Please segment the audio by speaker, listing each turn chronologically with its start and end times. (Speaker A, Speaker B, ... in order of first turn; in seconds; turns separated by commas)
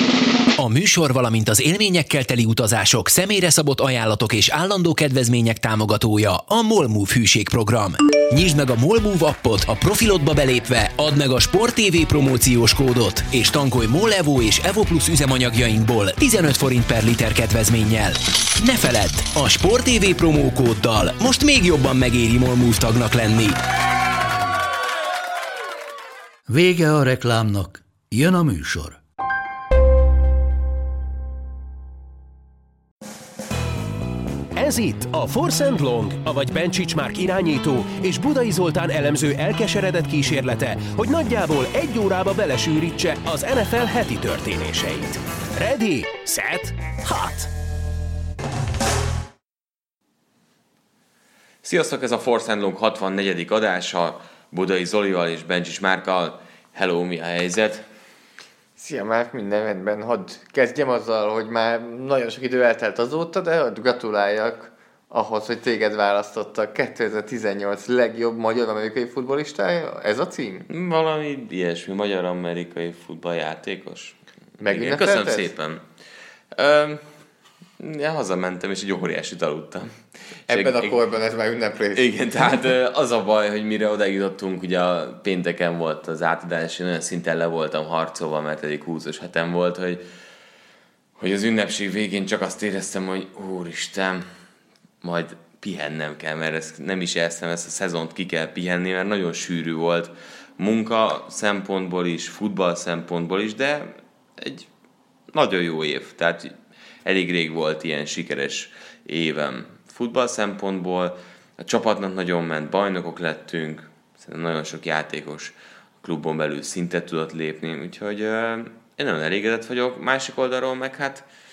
Speaker A: 0.6-23.6, Speaker B: 26.5-29.0, Speaker C: 34.5-47.5, Speaker D: 51.6-57.8, Speaker E: 58.8-70.7, Speaker D: 70.7-75.8, Speaker E: 74.6-75.5, Speaker D: 76.5-77.0, Speaker D: 77.8-79.9, Speaker D: 80.5-81.0, Speaker E: 80.5-82.1, Speaker D: 82.0-90.0, Speaker D: 91.2-94.2, Speaker D: 95.0-104.7, Speaker D: 105.3-106.5, Speaker D: 107.0-121.2